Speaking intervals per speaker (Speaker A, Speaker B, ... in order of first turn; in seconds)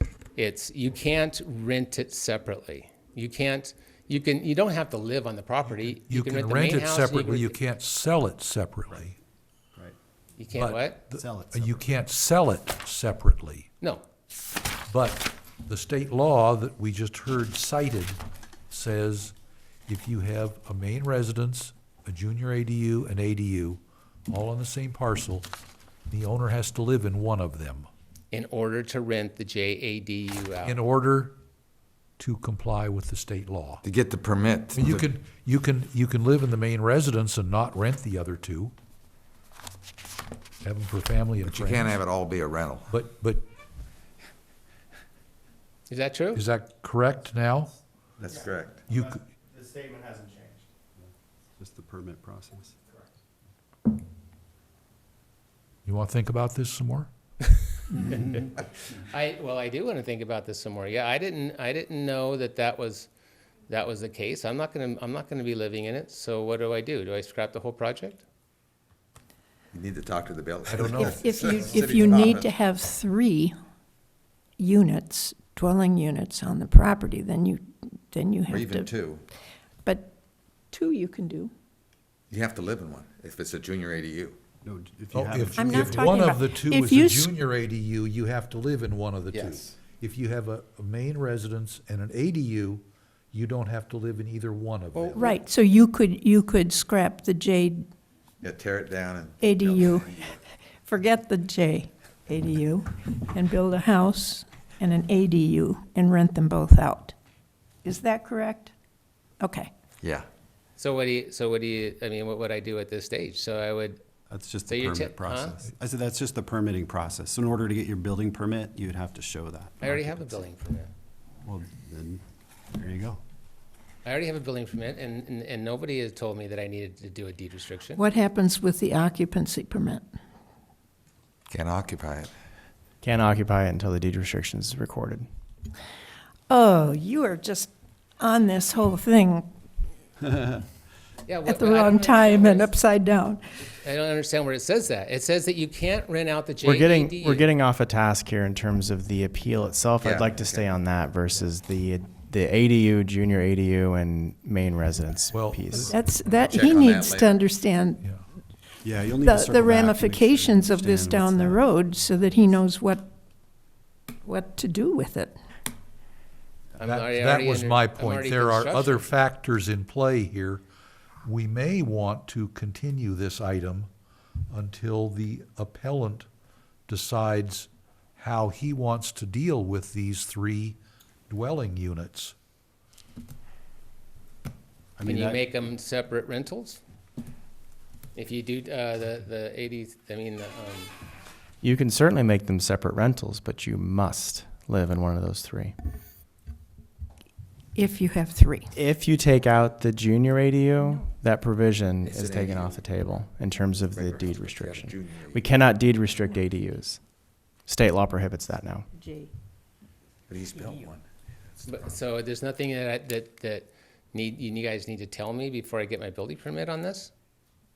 Speaker A: 0.3-7.6, 10.4-11.1, 28.3-30.8, 45.9-46.4, 58.1-58.4, 59.1-63.1, 63.7-68.2, 110.8-114.0, 114.7-115.6, 119.8-120.9, 124.0-128.0, 141.2-142.7, 143.7-147.5, 166.8-169.1, 185.0-186.8, 188.1-190.9, 211.6-217.1
Speaker B: 5.7-9.1, 10.5-13.7, 14.9-19.3, 19.9-25.5, 26.1-27.9, 30.6-31.3, 32.2-33.8, 34.7-38.7, 40.6-42.0, 42.9-43.4, 46.3-47.7, 48.9-49.2, 55.9-57.1, 70.7-71.2, 85.1-95.2, 155.3-155.6, 166.8-170.6, 171.2-173.9, 174.5-176.3, 176.9-180.8, 181.3-182.3
Speaker C: 11.1-11.9, 51.0-52.8, 84.6-86.3, 114.3-120.4, 121.4-122.2, 122.7-123.2, 155.7-156.0, 158.8-161.7, 185.0-185.4
Speaker D: 33.8-35.1, 41.4-42.9, 48.2-48.8, 69.7-72.5, 78.5-79.2, 82.3-84.4, 89.3-89.7, 94.9-95.3, 98.4-100.4, 110.0-110.3, 131.5-132.3, 150.0-150.7, 156.4-157.4, 202.0-202.9, 203.9-205.5, 210.3-211.0
Speaker E: 71.1-73.5, 74.6-78.9, 79.8-80.1, 80.7-81.5, 85.5-87.3, 95.1-97.8, 99.4-100.3, 100.8-107.1, 107.8-108.7, 109.4-109.7, 128.0-130.1, 136.5-139.5, 141.4-143.4, 155.8-158.0, 159.2-163.1, 164.2-165.4, 197.7-198.7, 209.0-209.3
Speaker F: 133.0-135.2, 146.6-156.0, 191.6-195.7, 198.7-207.0, 207.7-208.9